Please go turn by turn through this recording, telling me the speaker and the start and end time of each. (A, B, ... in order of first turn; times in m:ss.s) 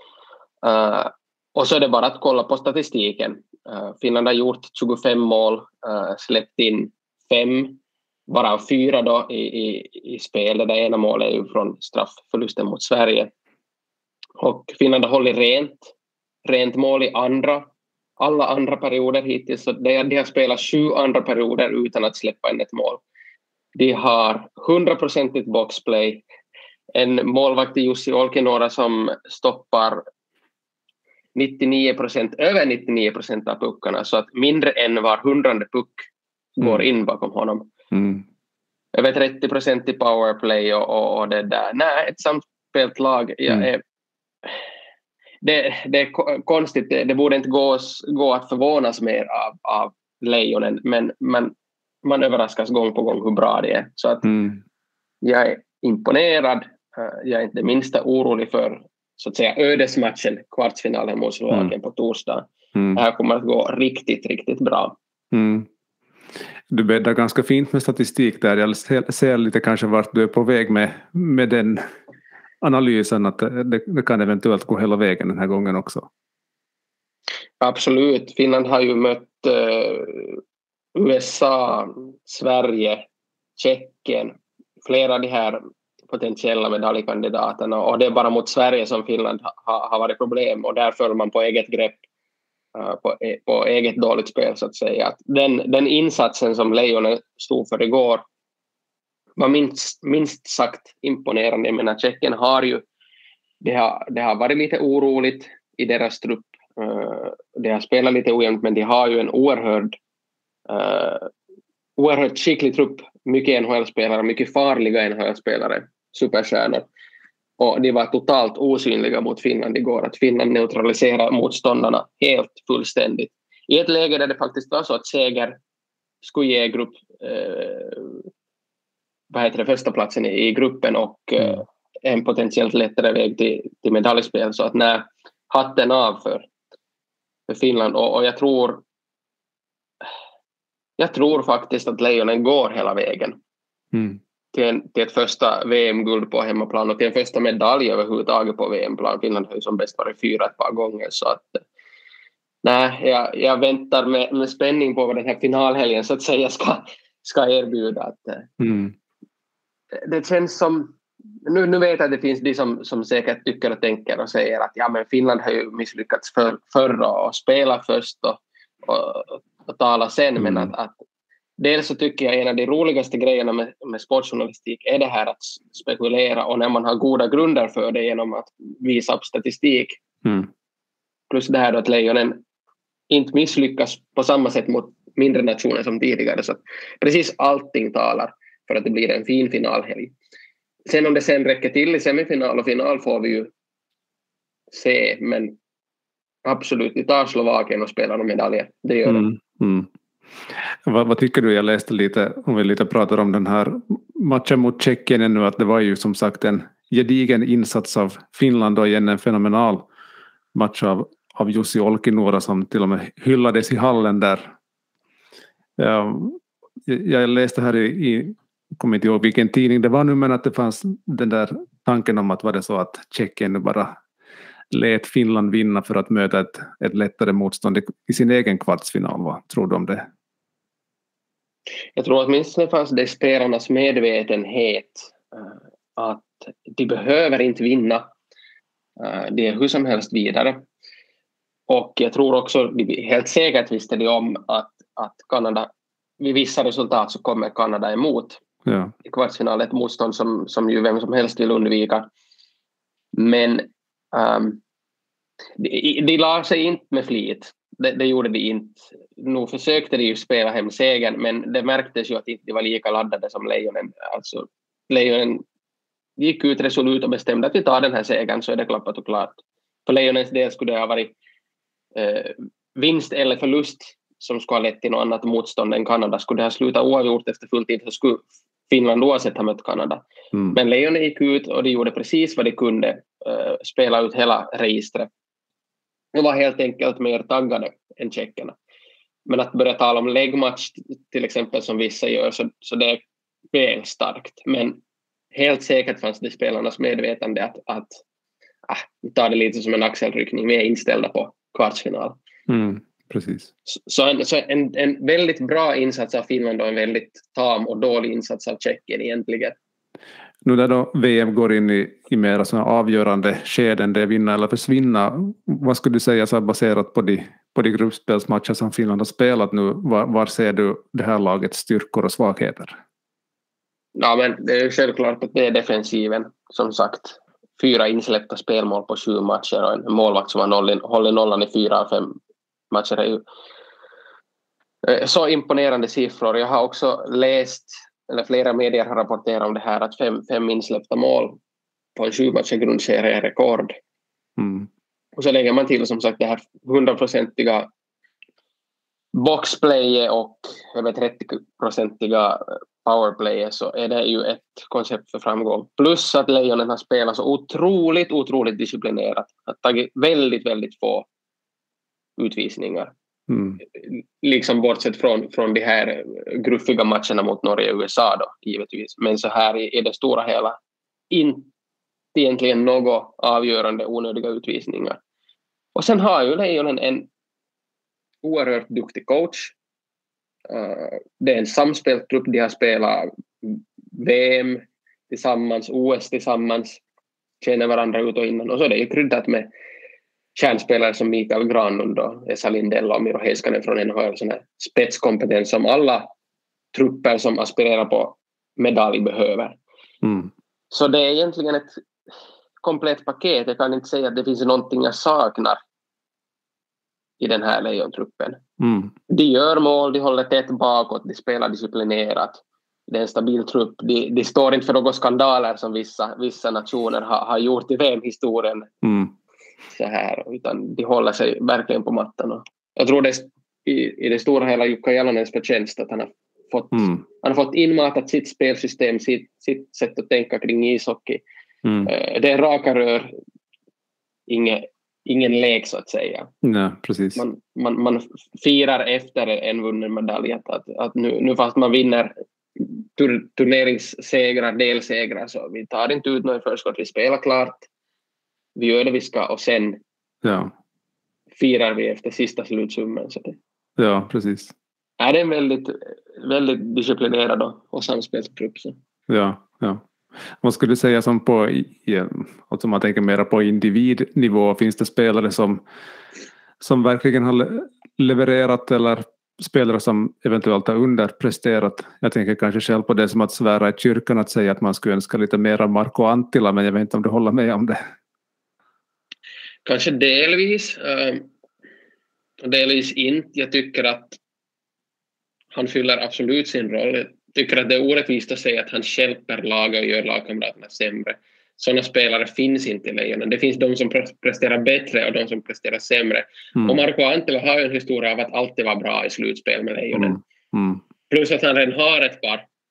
0:00.6-0:13.3 A
0:14.4-0:15.9 A
0:16.4-0:23.0 A
0:23.8-0:26.2 A
0:26.9-0:30.0 A
0:31.4-0:36.0 A
0:36.6-0:37.7 A
0:37.9-0:38.2 B
0:38.9-0:43.8 A
0:45.4-0:54.3 A
0:54.2-0:54.6 B
0:55.2-1:05.0 A
1:02.8-1:03.0 B
1:05.3-1:05.7 B
1:06.7-1:11.9 B
1:12.6-1:16.1 B
1:17.6-1:20.4 A
1:21.0-1:23.0 A
1:23.6-1:32.0 A
1:32.8-1:38.2 A
1:39.4-1:42.8 A
1:43.6-1:50.0 A
1:50.7-1:51.3 A
1:52.0-1:56.9 A
1:57.6-2:05.6 A
2:06.2-2:08.2 A
2:09.3-2:16.5 A
2:17.5-2:18.8 A
2:21.0-2:23.4 A
2:23.9-2:24.2 B
2:24.5-2:31.6 A
2:32.6-2:38.5 A
2:38.6-2:38.9 B
2:40.0-2:51.0 A
2:50.4-2:50.7 B
2:51.6-3:00.0 A
3:01.3-3:02.4 A
3:03.1-3:10.1 A
3:10.9-3:13.5 A
3:14.7-3:15.6 A
3:16.4-3:19.2 A
3:19.1-3:19.9 B
3:20.5-3:29.9 B
3:30.5-3:34.5 B
3:35.8-3:43.9 B
3:44.7-3:50.1 B
3:52.0-3:58.1 A
3:59.0-4:00.6 A
4:01.7-4:05.7 A
4:06.2-4:08.4 A
4:08.7-4:08.9 B
4:09.0-4:12.1 A
4:13.1-4:14.6 A
4:15.6-4:25.4 A
4:26.2-4:31.1 A
4:32.0-4:40.0 A
4:40.3-4:40.6 B
4:40.5-4:45.1 A
4:46.1-4:48.6 A
4:49.3-4:54.8 A
4:55.3-4:58.0 A
4:58.7-5:02.2 A
5:02.5-5:03.5 B
5:03.7-5:09.6 A
5:10.4-5:22.8 B
5:24.0-5:32.2 A
5:32.7-5:33.2 A
5:34.8-5:41.4 A
5:42.0-5:43.8 A
5:44.4-5:44.7 B
5:45.2-5:47.7 A
5:49.1-6:01.1 A
6:02.2-6:02.9 A
6:03.3-6:03.6 B
6:03.8-6:10.6 A
6:11.1-6:11.5 A
6:12.2-6:15.0 A
6:15.8-6:17.1 A
6:18.2-6:19.5 A
6:20.5-6:26.8 A
6:27.4-6:29.5 A
6:30.4-6:36.1 A
6:36.7-6:39.6 A
6:40.0-6:40.3 B
6:40.7-6:41.7 A
6:42.6-6:45.6 A
6:47.2-6:48.4 A
6:48.6-6:48.9 B
6:49.1-6:58.7 A
6:58.8-6:59.1 B
6:59.7-7:11.2 A
7:06.7-7:07.0 B
7:11.6-7:11.9 B
7:11.9-7:13.1 A
7:14.3-7:16.3 A
7:16.4-7:17.2 B
7:17.2-7:27.7 A
7:28.6-7:29.8 A
7:30.2-7:30.5 B
7:31.4-7:33.4 A
7:33.8-7:34.5 B
7:35.0-7:38.8 A
7:39.1-7:39.8 B
7:40.4-7:45.6 B
7:46.6-7:57.8 B
7:59.6-8:01.3 A
8:02.4-8:04.2 A
8:05.5-8:20.2 A
8:20.0-8:20.8 B
8:21.1-8:22.4 A